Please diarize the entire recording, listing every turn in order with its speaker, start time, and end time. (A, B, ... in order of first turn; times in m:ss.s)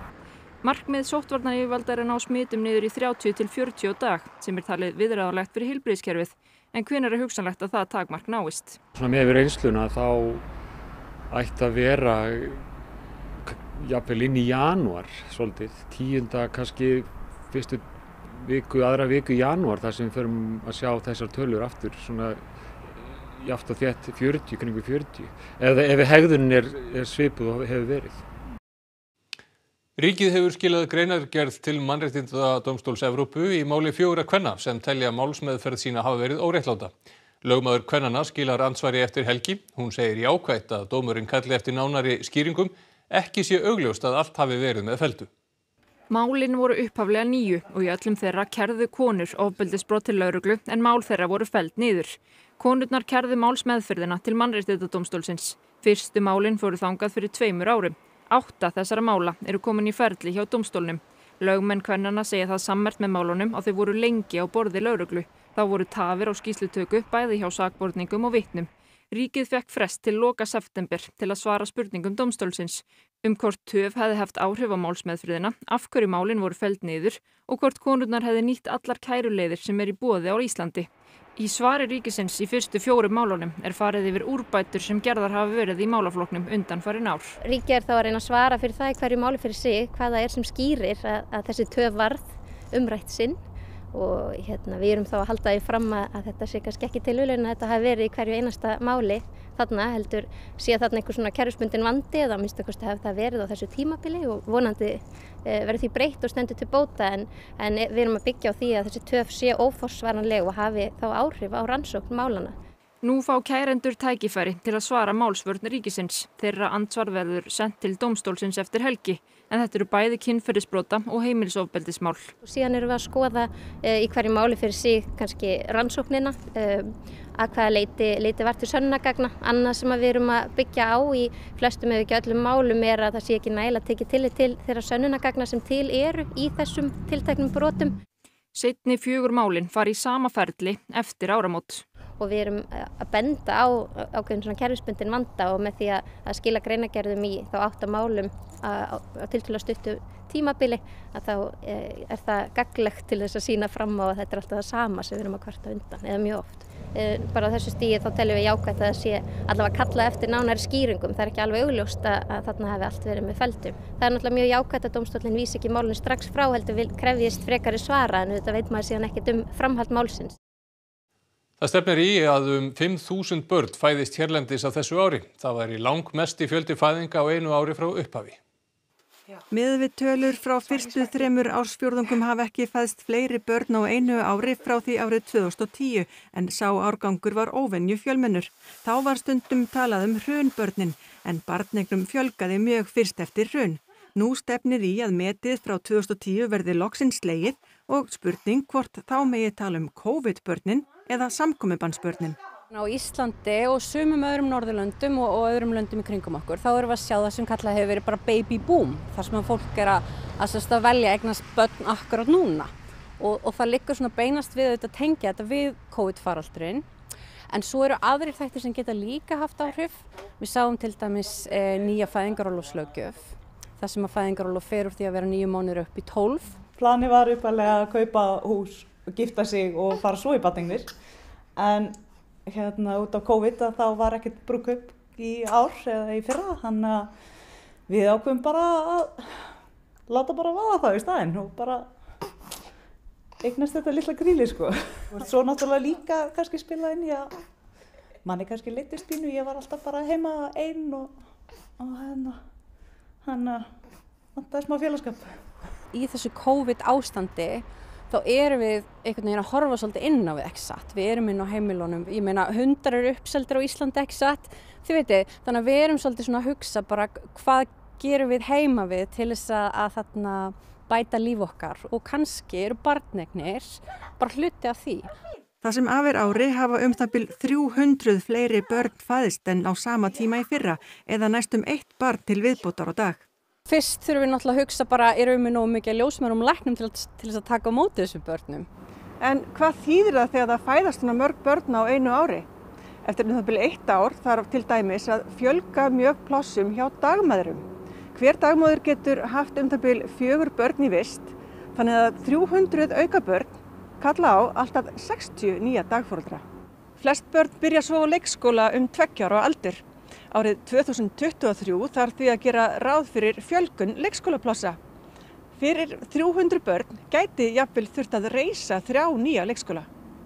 0:00.6-0:08.8 A
0:08.9-0:10.4 B
0:11.3-0:12.7 B
0:13.4-0:28.2 B
0:30.0-0:36.9 C
0:37.4-0:45.3 C
0:46.1-1:27.4 A
1:27.4-1:33.4 D
1:33.9-1:52.5 D
1:53.0-2:02.3 A
2:02.4-2:18.0 D
2:18.5-2:21.8 A
2:22.2-2:50.4 D
2:51.6-2:58.4 C
2:59.5-3:22.4 E
3:22.7-3:36.8 F
3:37.5-3:46.5 F
3:46.7-3:50.9 G
3:51.6-3:57.1 G
3:57.9-3:59.2 G
4:00.1-4:01.9 G
4:03.4-4:07.4 G
4:08.2-4:11.2 G
4:11.8-4:12.4 G
4:13.2-4:13.7 G
4:14.4-4:15.5 G
4:15.9-4:35.1 F
4:35.6-4:43.2 E
4:43.7-4:48.7 F
4:49.2-4:52.5 E
4:53.0-5:06.4 E
5:07.0-5:14.8 E
5:15.6-5:19.9 E